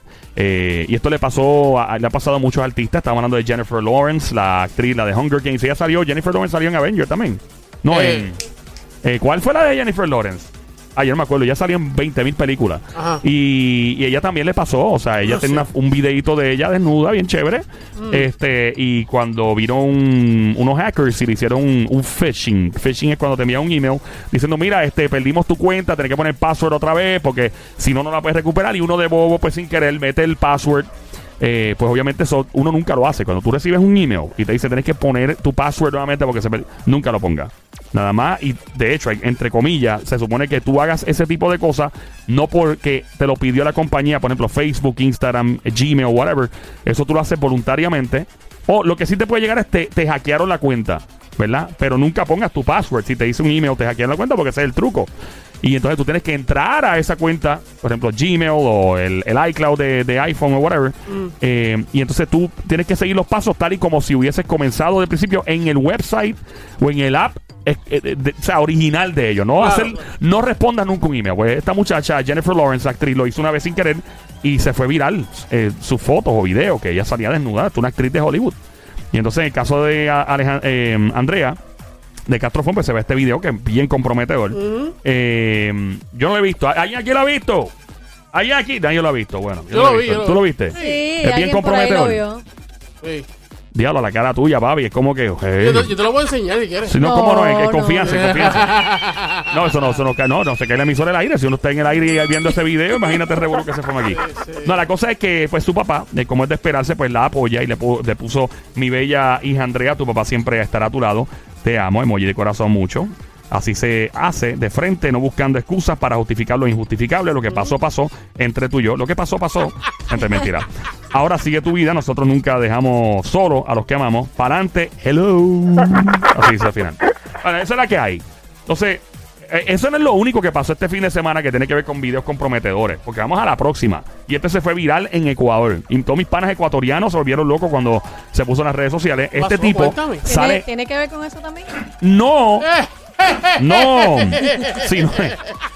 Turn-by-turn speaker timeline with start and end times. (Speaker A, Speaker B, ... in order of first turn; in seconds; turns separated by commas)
Speaker A: 0.4-8.4, Speaker B: 7.9-8.3, Speaker A: 9.0-30.9, Speaker B: 12.9-13.2, Speaker B: 15.2-15.7, Speaker B: 18.0-18.3, Speaker A: 31.4-55.1, Speaker A: 55.6-78.6, Speaker B: 61.1-61.3, Speaker B: 69.6-70.0, Speaker A: 79.1-81.6, Speaker A: 82.3-87.7, Speaker B: 84.5-85.0, Speaker A: 88.3-92.2, Speaker B: 89.7-91.1, Speaker C: 90.7-92.4, Speaker B: 93.0-93.3, Speaker A: 93.7-95.9, Speaker B: 95.6-97.0, Speaker A: 96.8-98.8, Speaker C: 97.0-98.2, Speaker B: 98.0-99.6, Speaker A: 99.5-140.7, Speaker B: 104.0-104.8, Speaker B: 139.3-140.3, Speaker C: 140.3-141.8, Speaker A: 142.0-142.7, Speaker B: 142.6-145.5, Speaker A: 143.6-145.4